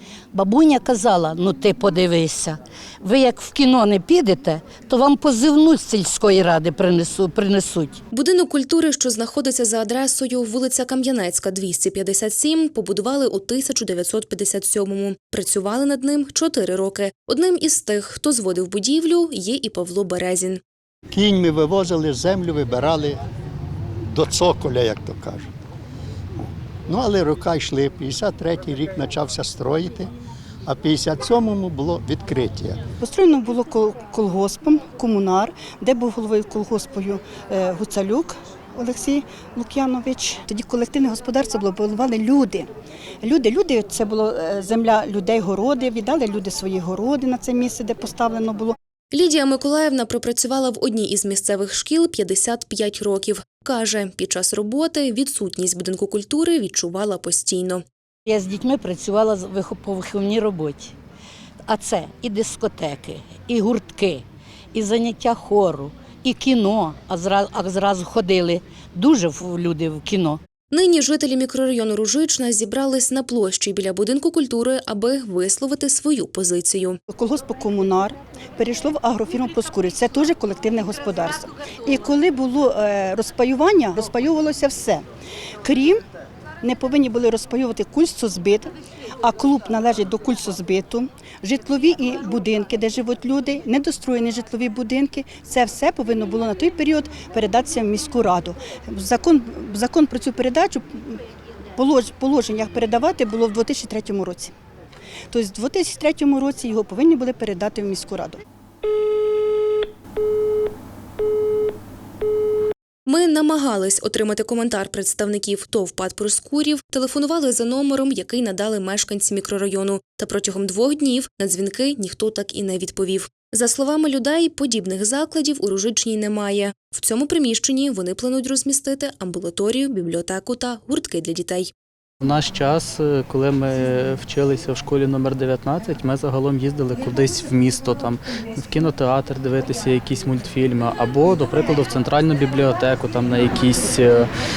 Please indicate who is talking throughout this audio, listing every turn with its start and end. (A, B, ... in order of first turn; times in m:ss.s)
0:00.3-0:08.0 A
0:08.1-0:20.6 B
0:21.1-0:23.2 C
0:24.1-0:25.5 C
0:26.9-0:30.1 C
0:30.7-0:32.8 C
0:33.0-0:42.7 D
0:43.2-0:48.8 D
0:49.1-0:57.8 B
0:58.3-1:01.0 A
1:01.7-1:10.4 A
1:10.7-1:17.0 B
1:17.1-1:25.0 D
1:25.6-1:26.0 D
1:26.6-1:28.7 D
1:29.2-1:41.2 D
1:41.8-1:44.5 D
1:45.3-1:48.4 D
1:53.1-2:11.7 B
2:12.2-2:24.3 E